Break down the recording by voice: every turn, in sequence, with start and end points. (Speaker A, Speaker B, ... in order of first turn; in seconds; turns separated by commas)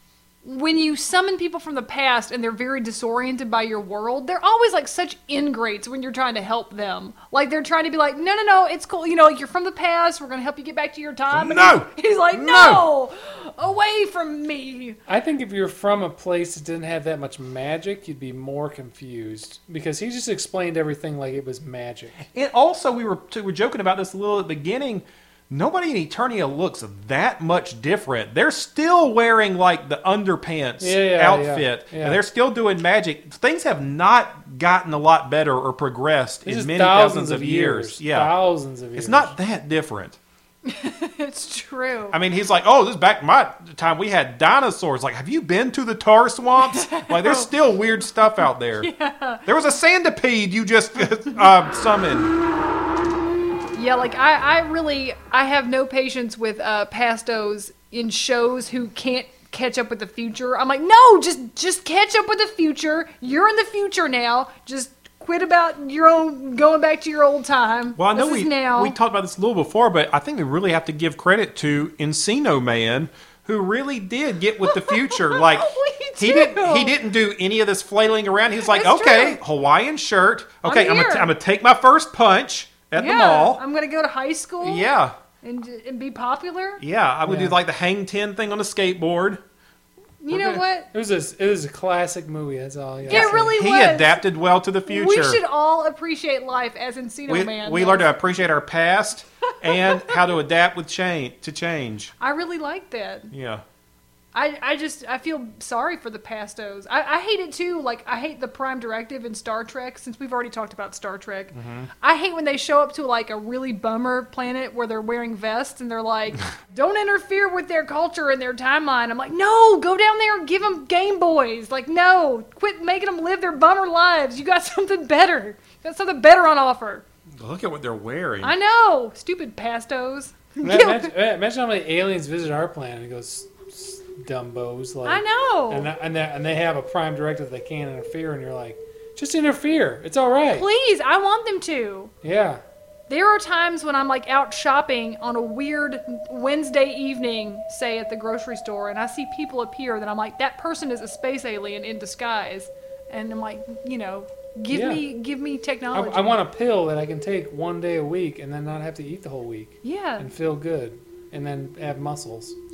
Speaker A: 0.4-15.0, Speaker B: 11.3-12.9, Speaker C: 15.1-22.2, Speaker B: 22.3-38.4, Speaker C: 30.8-32.2, Speaker C: 36.4-39.3, Speaker B: 39.0-40.2, Speaker A: 40.6-42.2, Speaker B: 42.1-48.9, Speaker A: 46.6-47.5, Speaker A: 48.8-49.5, Speaker B: 49.5-52.3, Speaker A: 53.7-68.9, Speaker B: 68.0-83.6, Speaker A: 74.6-77.0, Speaker A: 78.7-79.4, Speaker A: 80.6-81.3, Speaker A: 83.0-86.8, Speaker B: 84.6-85.1, Speaker B: 86.8-89.4, Speaker C: 87.2-87.6, Speaker A: 90.2-90.9, Speaker C: 90.3-93.5, Speaker A: 93.1-94.2, Speaker B: 93.1-95.4, Speaker A: 94.9-98.1, Speaker B: 97.3-102.1, Speaker A: 99.6-100.2, Speaker A: 102.2-103.3, Speaker B: 103.3-103.6, Speaker A: 104.3-127.0, Speaker B: 111.5-111.9, Speaker B: 127.4-128.5, Speaker A: 128.4-131.1, Speaker C: 130.6-140.7, Speaker A: 135.0-135.9, Speaker A: 140.5-142.1, Speaker C: 142.2-142.6, Speaker A: 143.1-156.4, Speaker C: 154.7-155.0, Speaker C: 155.9-162.6, Speaker A: 159.8-160.3